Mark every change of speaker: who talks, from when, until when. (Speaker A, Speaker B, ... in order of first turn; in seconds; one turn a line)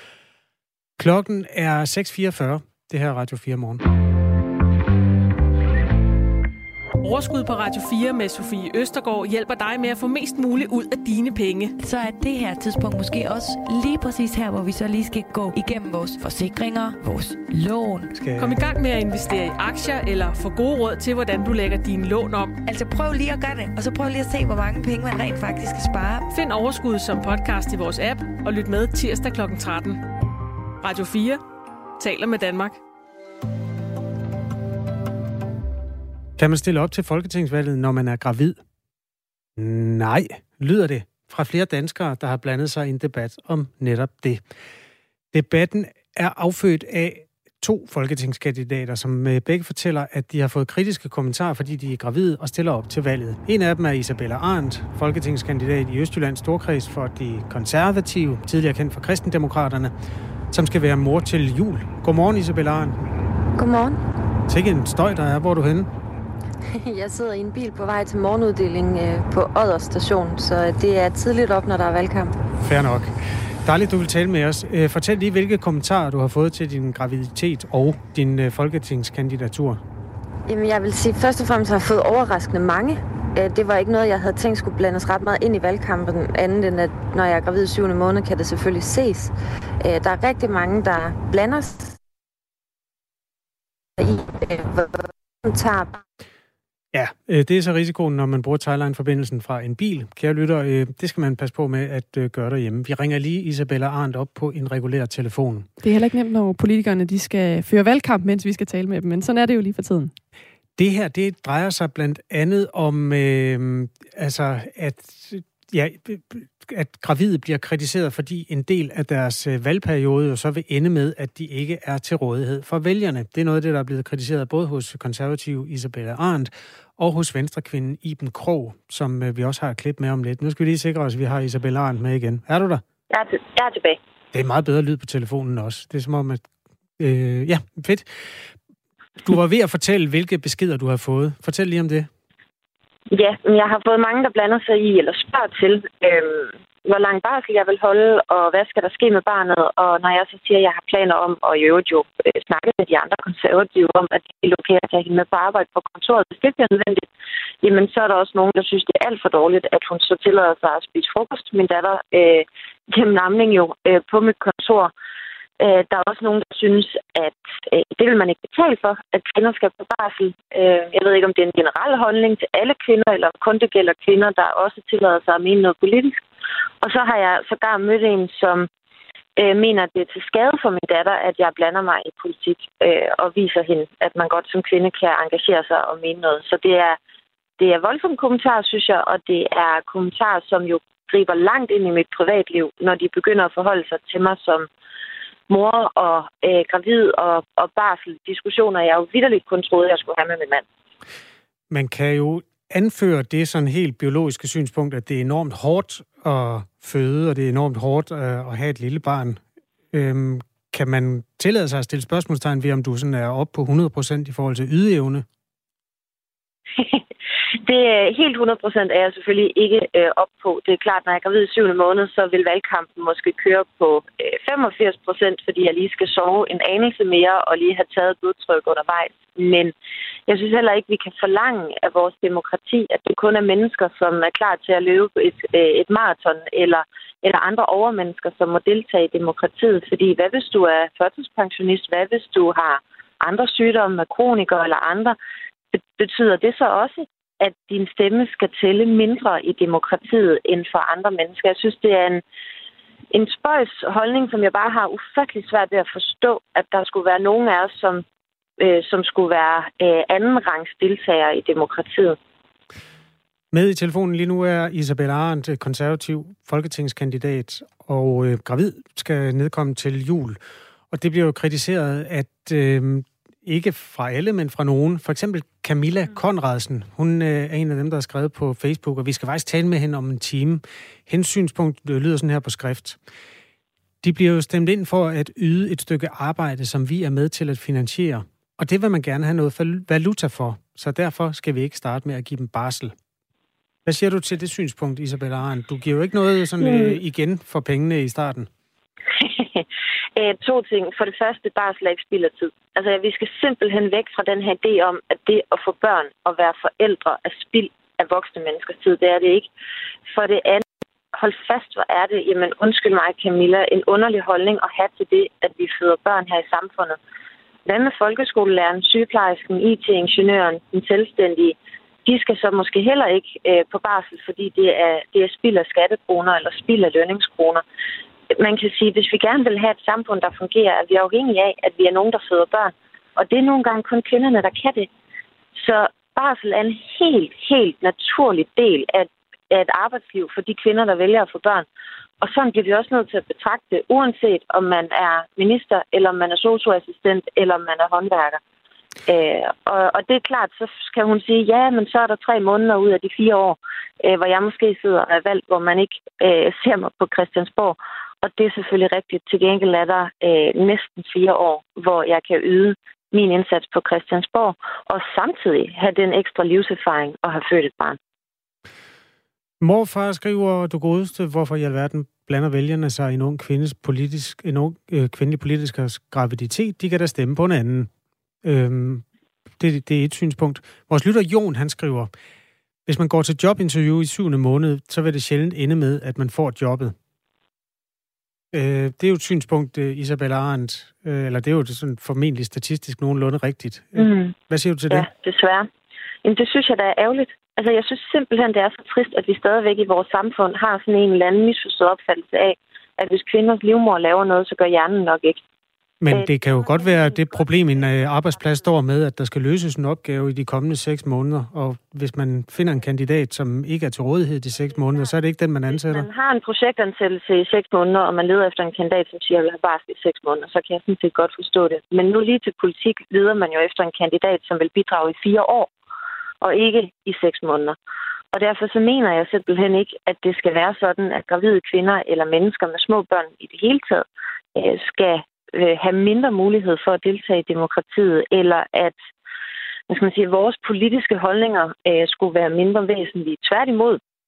Speaker A: 1.0-3.8
Speaker B: 7.0-11.7
Speaker C: 11.8-18.1
Speaker A: 18.1-18.6
Speaker B: 18.4-22.6
Speaker C: 22.6-26.3
Speaker B: 26.3-30.0
Speaker B: 30.8-31.4
Speaker B: 32.0-32.8
Speaker A: 36.4-38.6
Speaker A: 39.6-44.4
Speaker A: 45.3-59.9
Speaker A: 60.5-63.0
Speaker D: 63.5-64.0
Speaker A: 64.5-65.9
Speaker D: 66.8-72.3
Speaker A: 72.6-79.8
Speaker D: 80.5-92.0
Speaker D: 94.0-96.0
Speaker A: 96.9-105.7
Speaker E: 105.8-110.1
Speaker A: 110.8-132.8
Speaker F: 133.1-134.0
Speaker A: 134.3-136.4
Speaker A: 137.0-138.5
Speaker A: 139.2-142.1
Speaker F: 143.1-157.1
Speaker F: 157.6-164.9
Speaker F: 165.6-176.2
Speaker F: 176.8-178.7
Speaker F: 179.4-187.0
Speaker F: 187.6-194.7
Speaker F: 195.5-200.6
Speaker A: 201.7-209.4
Speaker A: 209.9-215.2
Speaker F: 217.6-229.7
Speaker F: 230.3-245.2
Speaker F: 245.7-252.2
Speaker F: 253.1-258.0
Speaker F: 258.6-262.1
Speaker A: 263.5-270.4
Speaker A: 270.9-283.0
Speaker A: 284.0-292.9
Speaker A: 293.9-298.5
Speaker F: 296.6-297.0
Speaker F: 299.2-299.6
Speaker F: 300.1-309.5
Speaker F: 310.1-317.0
Speaker F: 317.6-327.6
Speaker F: 328.4-334.9
Speaker F: 335.5-341.6
Speaker F: 342.2-348.4
Speaker F: 349.1-368.0
Speaker A: 369.6-377.9
Speaker A: 378.4-379.0
Speaker A: 379.6-382.1
Speaker A: 382.9-386.9
Speaker A: 388.5-395.1
Speaker F: 394.0-394.3
Speaker F: 394.9-395.7
Speaker F: 396.2-405.4
Speaker A: 406.0-416.1
Speaker F: 406.1-408.7
Speaker F: 414.6-415.1
Speaker F: 415.7-425.7
Speaker F: 426.4-427.8
Speaker F: 428.3-434.0
Speaker F: 434.5-439.0
Speaker F: 439.9-444.0